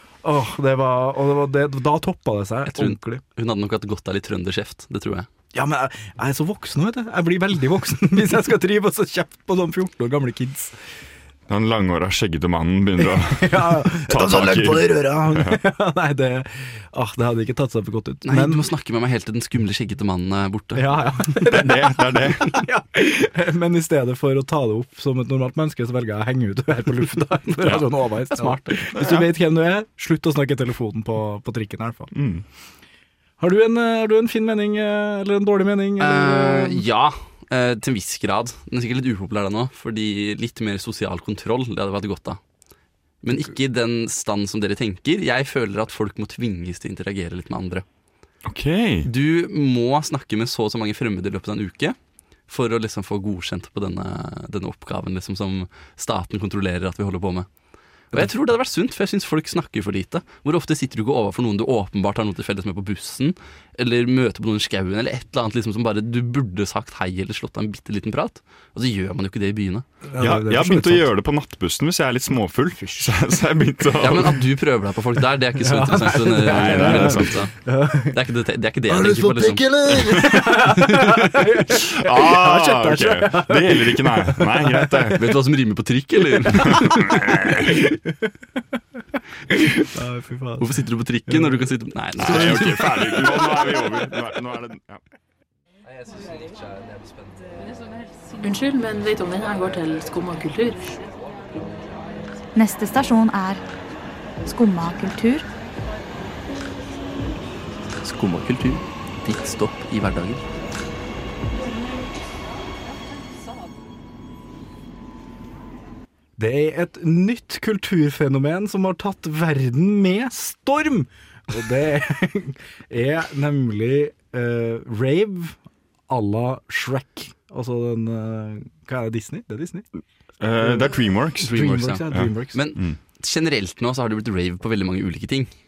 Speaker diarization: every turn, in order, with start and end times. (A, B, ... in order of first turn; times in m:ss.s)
0:00.2-0:03.2 A
0:02.7-0:05.3 B
0:05.5-0:10.7 A
0:11.5-0:15.6 C
0:13.0-0:18.7 A
0:18.2-0:21.0 B
0:20.7-0:32.1 A
0:21.4-0:22.6 C
0:27.6-0:27.9 C
0:28.9-0:29.2 C
0:32.1-0:32.4 C
0:33.4-0:36.8 A
0:36.0-0:42.4 B
0:43.2-0:47.8 B
0:48.4-0:49.1 C
0:49.0-0:52.0 B
0:52.5-0:57.5 B
0:58.1-1:09.8 B
1:10.1-1:11.1 A
1:10.2-1:14.4 C
1:12.8-1:13.2 A
1:14.0-1:17.5 B
1:15.5-1:18.2 A
1:16.4-1:17.4 C
1:18.1-1:21.4 B
1:18.9-1:25.2 A
1:21.7-1:25.2 C
1:25.1-1:27.6 B
1:26.5-1:28.3 A
1:26.8-1:27.6 C
1:29.5-1:31.6 A
1:30.6-1:33.2 B
1:32.2-1:35.0 C
1:32.3-1:33.8 A
1:38.4-1:40.9 D
1:42.5-1:43.6 E
1:44.4-1:45.4 E
1:48.0-1:50.4 B
1:56.4-2:05.6 A
2:06.1-2:09.8 A
2:10.4-2:13.0 C
2:10.6-2:12.6 A
2:11.5-2:15.5 B